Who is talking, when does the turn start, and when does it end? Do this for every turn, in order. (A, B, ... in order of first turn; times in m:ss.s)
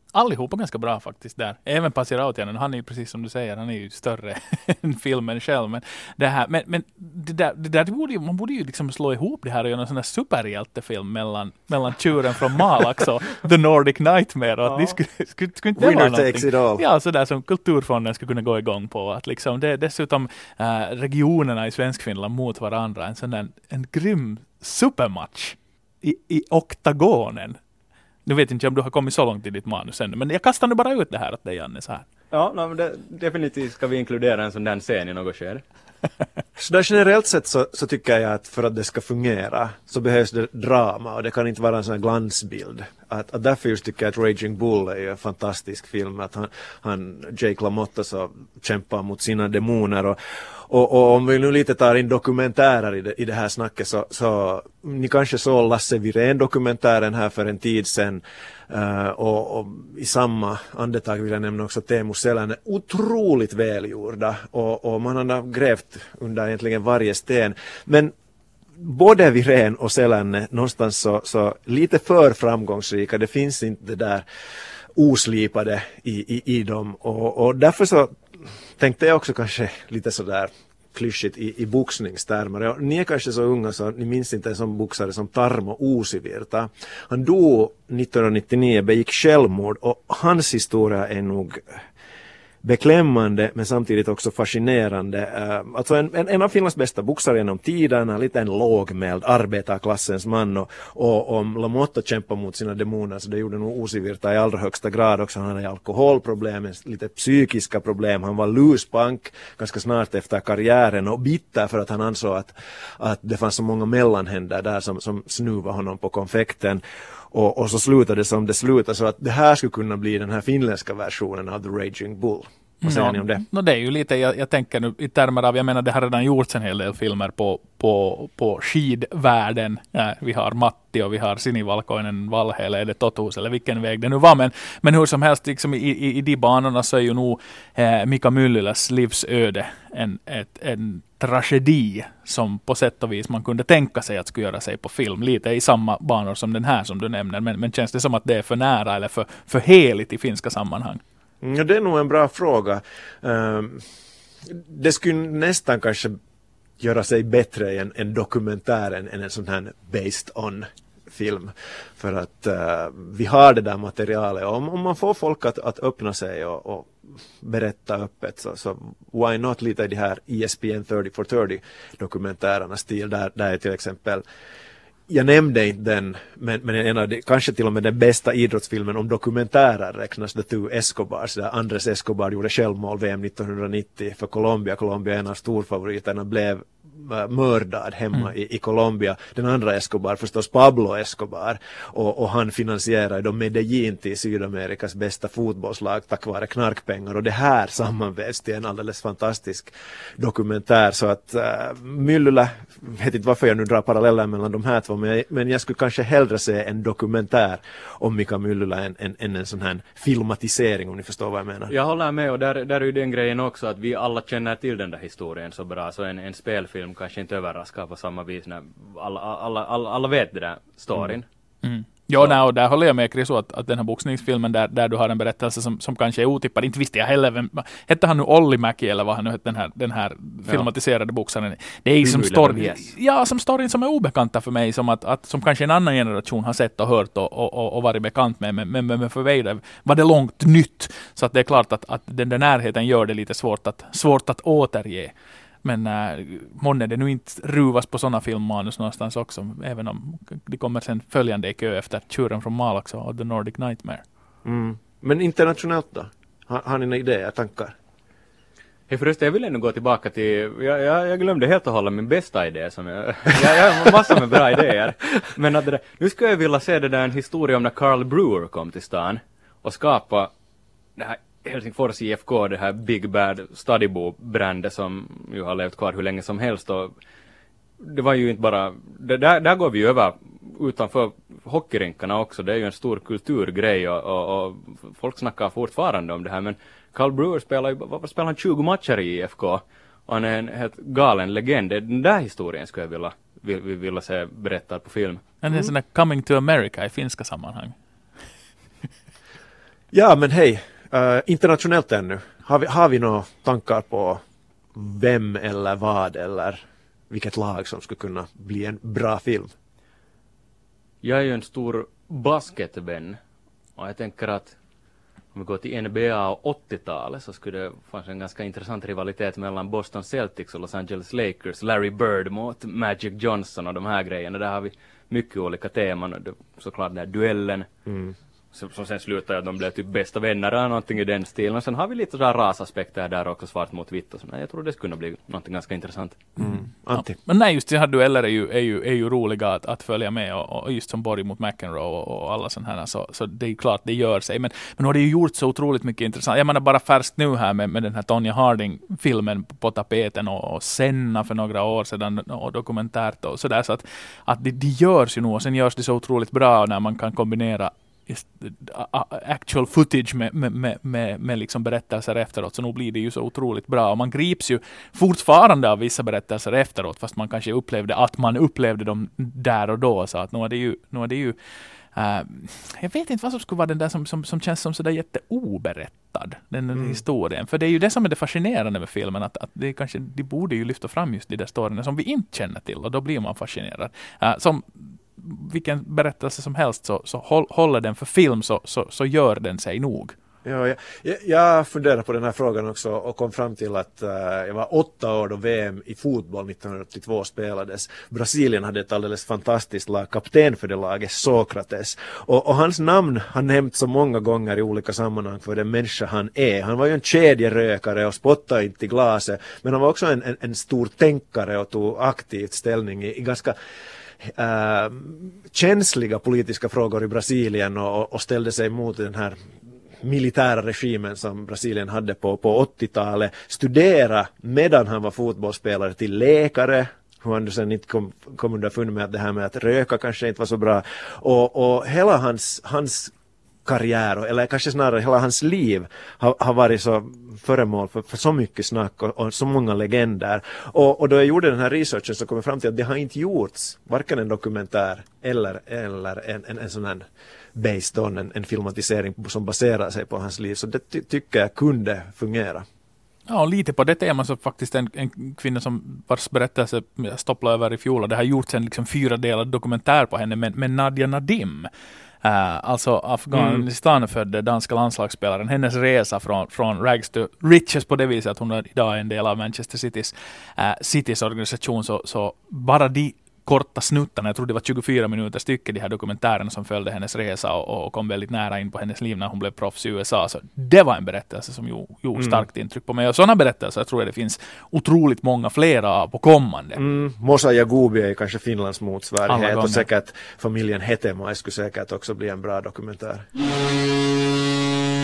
0:00.1-0:27.6 A
0:14.6-0:15.0 B
0:15.8-0:16.8 C
0:28.2-0:32.1 A
0:32.3-0:35.6 B
0:36.6-0:50.2 C
0:50.7-1:08.1 C
1:08.8-1:14.2 C
1:15.0-1:18.2 C
1:18.8-1:31.8 C
1:32.6-2:03.4 C
2:02.8-2:31.0 A
2:31.4-2:33.9 C
2:34.5-2:36.2 C
2:36.8-2:54.2 C
2:55.1-3:31.7 C
3:31.7-3:41.3 B
3:41.6-4:05.1 A
3:52.0-3:52.9 B
4:05.6-4:14.0 A
4:14.4-4:17.7 C
4:18.9-4:30.3 B
4:31.0-4:36.9 B
4:37.8-4:55.2 B
4:55.4-4:57.8 A
4:59.9-5:04.2 C
5:04.8-5:09.5 C
5:11.0-5:13.2 B
5:13.8-5:14.6 B
5:15.3-5:27.7 B
5:27.9-5:28.1 C
5:28.5-5:36.2 B
5:36.4-5:37.2 C
5:36.5-6:11.4 A
6:11.9-6:30.2 A
6:16.7-6:17.0 C
6:30.4-6:53.6 C
6:54.2-6:59.4 C
7:00.0-7:13.1 C
7:13.6-7:32.7 C
7:33.3-7:41.7 A
7:42.2-8:06.8 A
7:43.3-7:43.6 C
8:02.2-8:02.5 C
8:06.8-8:13.3 C
8:09.3-8:09.9 A